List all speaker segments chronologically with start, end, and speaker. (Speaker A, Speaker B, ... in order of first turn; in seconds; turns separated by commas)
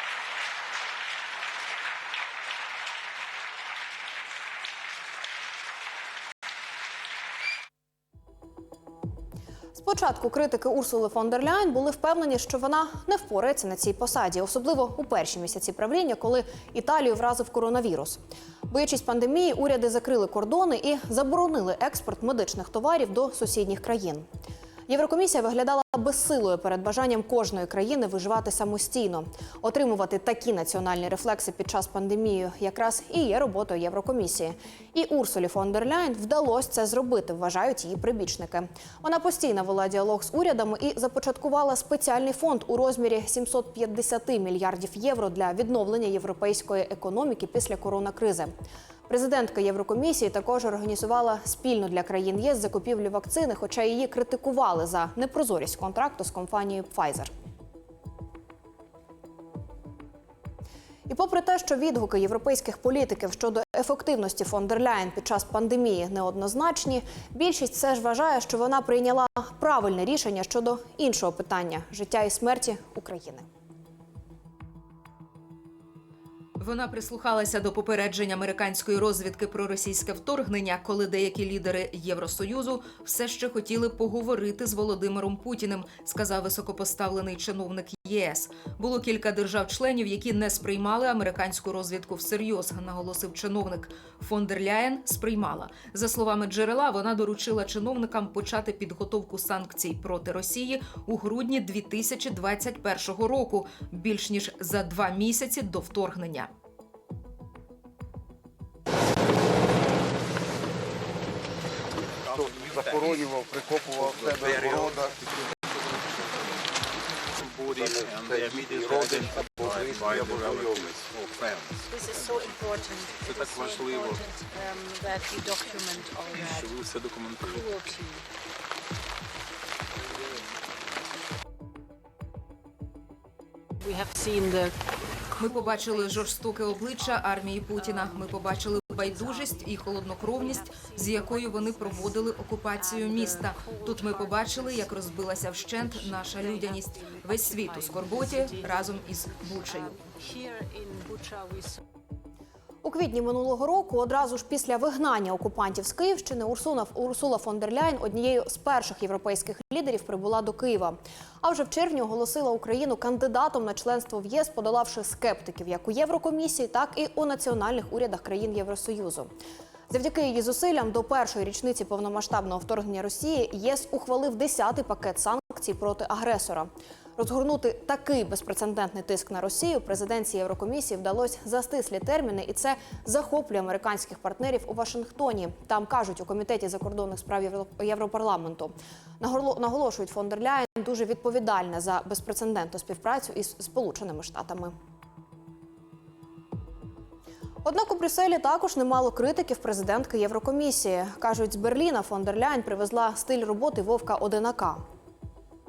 Speaker A: 9.7-24.2, Speaker A: 24.9-48.5, Speaker A: 49.1-57.3, Speaker A: 61.1-73.5, Speaker B: 76.6-106.5, Speaker C: 112.2-113.3, Speaker D: 112.3-115.2, Speaker C: 114.0-116.6, Speaker C: 117.3-122.7, Speaker D: 117.8-121.0, Speaker E: 121.9-126.8, Speaker C: 123.2-124.2, Speaker C: 126.3-127.8, Speaker E: 127.5-128.2, Speaker E: 133.8-134.7, Speaker B: 135.3-150.0, Speaker E: 135.4-136.3, Speaker E: 137.0-151.8, Speaker A: 152.8-169.3, Speaker A: 169.9-194.7, Speaker A: 197.6-204.8